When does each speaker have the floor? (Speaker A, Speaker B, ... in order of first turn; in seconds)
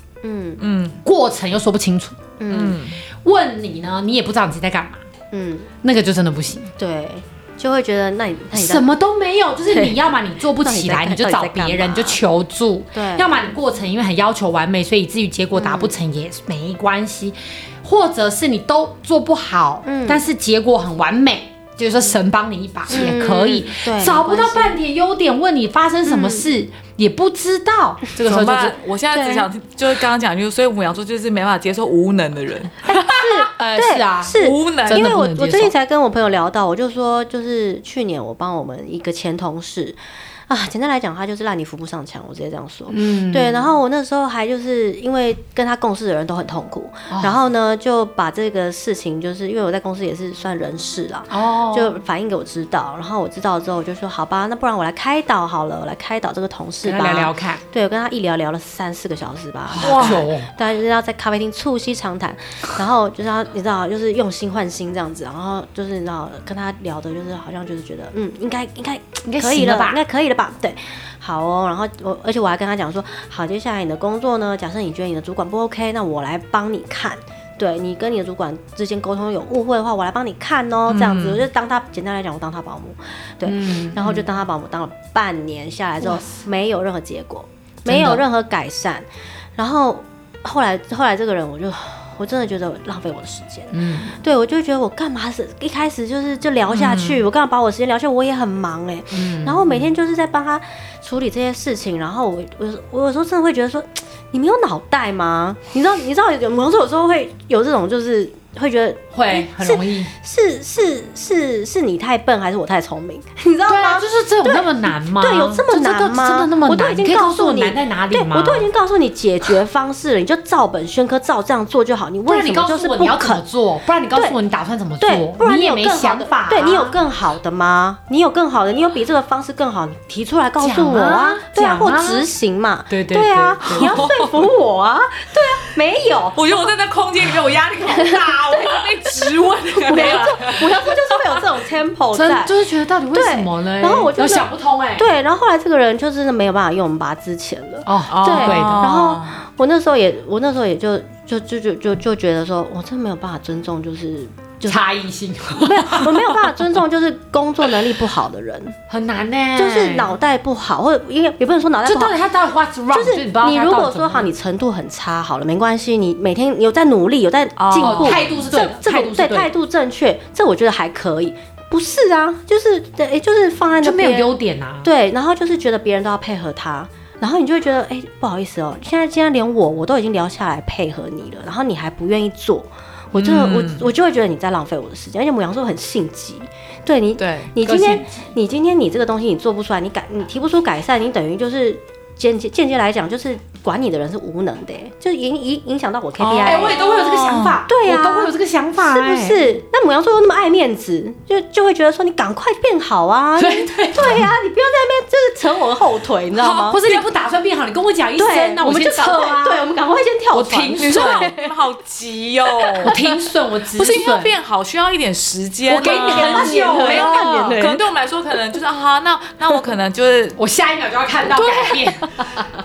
Speaker A: 0.2-0.6, 2.4-2.8, 5.3-5.7, 6.8-8.9, 9.7-12.2, 12.9-13.5, 15.5-15.9, 19.9-20.2, 22.9-24.8, 26.1-26.5, 29.1-29.5, 33.1-123.4, 125.0-136.7, 137.9-142.6, 143.1-154.9, 155.6-158.8, 159.6-162.2, 162.9-174.3, 174.8-197.1, 197.7-206.8, 208.2-211.6, 212.5-213.2, 215.7-217.9
Speaker B: 0.6-1.0, 2.5-3.0, 28.2-33.2, 34.3-35.1, 59.8-60.2, 80.9-81.4, 96.7-97.2, 133.7-134.4, 136.3-141.4, 148.1-149.3, 167.6-168.2, 183.1-183.9, 187.2-187.5, 196.2-197.6, 210.8-212.9, 213.8-220.4, 221.3-221.9
Speaker C: 1.0-2.2, 3.2-5.0, 5.8-6.7, 8.5-28.8, 32.9-35.7, 42.9-43.7, 47.1-47.4, 51.3-52.0, 56.9-57.6, 59.7-60.5, 69.2-70.0, 83.5-84.2, 86.0-86.3, 87.9-88.2, 93.7-94.2, 99.1-99.9, 109.1-110.1, 113.7-118.7, 122.3-127.0, 130.6-132.3, 132.9-134.1, 142.1-145.1, 147.9-148.9, 154.7-156.6, 158.9-160.2, 161.8-164.3, 167.8-169.5, 173.8-174.9, 187.6-188.3, 196.4-199.4, 203.4-204.3, 206.3-209.6, 210.3-211.3, 212.8-214.3, 215.7-217.6, 220.4-222.3